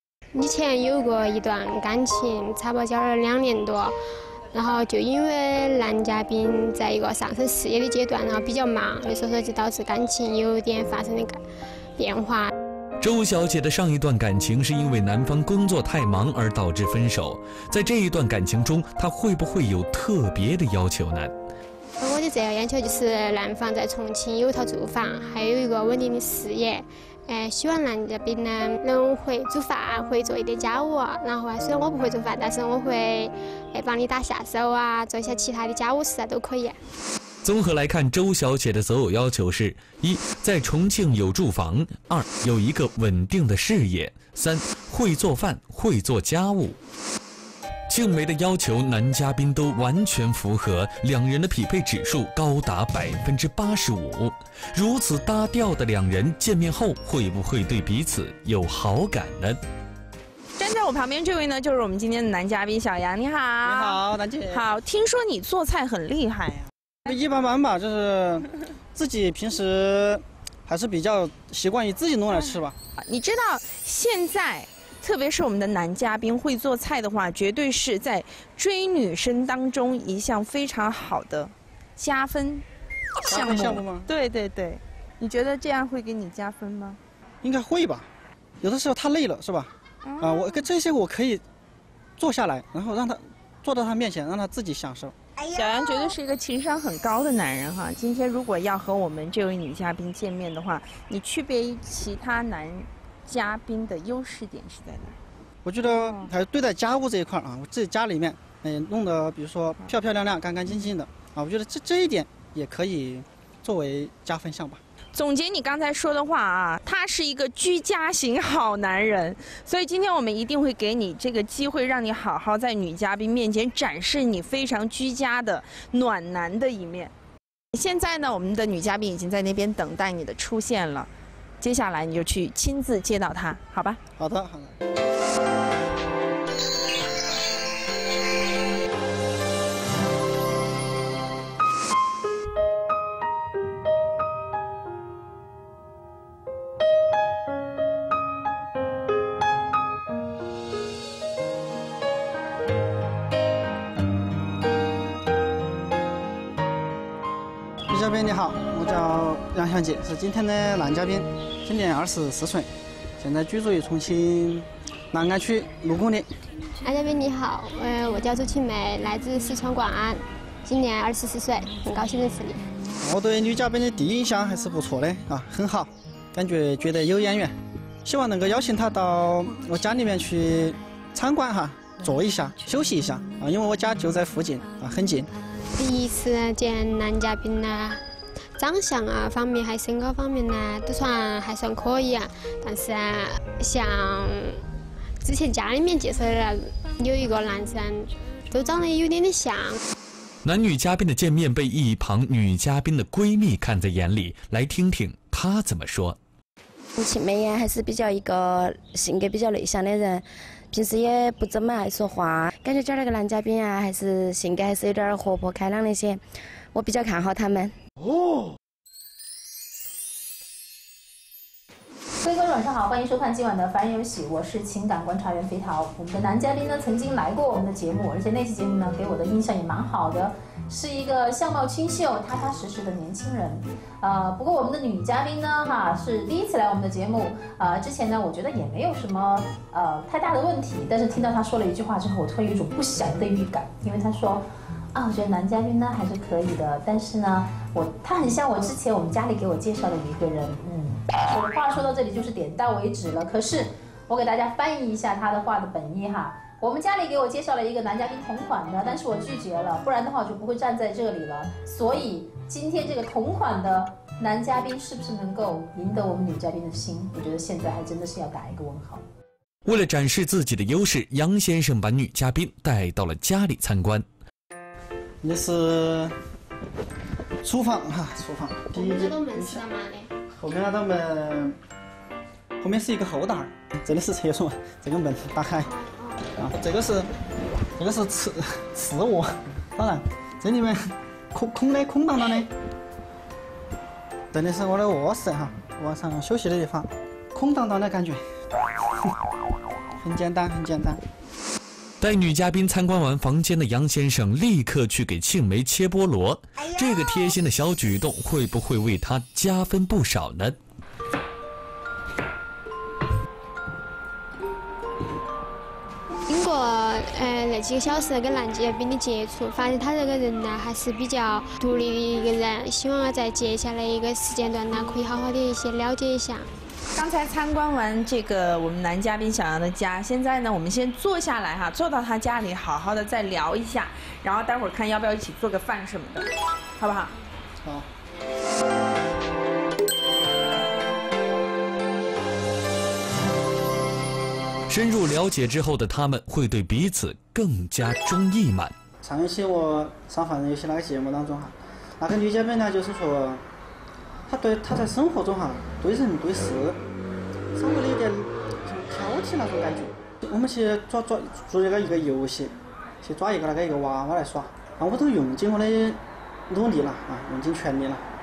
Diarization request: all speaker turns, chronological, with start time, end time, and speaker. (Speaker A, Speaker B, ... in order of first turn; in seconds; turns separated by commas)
Speaker A: 0.3-4.0, Speaker A: 4.5-11.4, Speaker A: 12.0-12.5, Speaker B: 13.0-21.3, Speaker A: 22.0-36.8, Speaker B: 37.4-46.8, Speaker B: 47.9-59.6, Speaker C: 60.6-66.7, Speaker D: 63.6-64.7, Speaker D: 67.0-72.8, Speaker C: 73.0-82.7, Speaker C: 83.2-87.0, Speaker D: 83.2-84.1, Speaker D: 87.4-88.1, Speaker D: 88.6-91.4, Speaker C: 90.0-90.6, Speaker D: 92.2-95.2, Speaker C: 95.5-105.2, Speaker D: 105.7-114.8, Speaker C: 105.9-106.3, Speaker C: 115.1-127.1, Speaker C: 127.7-131.1, Speaker C: 131.6-134.0, Speaker D: 134.2-134.7, Speaker D: 157.9-162.7, Speaker D: 163.2-166.3, Speaker A: 166.8-172.7, Speaker D: 173.0-185.3, Speaker A: 185.7-188.0, Speaker A: 188.6-194.6, Speaker A: 195.2-199.8, Speaker B: 200.4-206.2, Speaker E: 207.0-216.2, Speaker E: 216.7-217.8, Speaker F: 222.2-269.1, Speaker B: 269.6-274.1, Speaker D: 275.2-276.1, Speaker D: 277.4-279.6, Speaker A: 278.8-280.1, Speaker D: 280.4-281.6, Speaker D: 282.6-285.7, Speaker A: 285.7-286.2, Speaker D: 286.4-287.1, Speaker D: 287.8-292.5, Speaker D: 294.3-298.2, Speaker D: 300.0-301.0, Speaker B: 302.0-310.6, Speaker A: 316.3-326.5, Speaker C: 326.9-336.3, Speaker C: 336.8-337.1, Speaker D: 337.6-337.9, Speaker B: 344.7-348.7, Speaker D: 349.0-353.4, Speaker D: 354.3-356.8, Speaker D: 357.6-368.0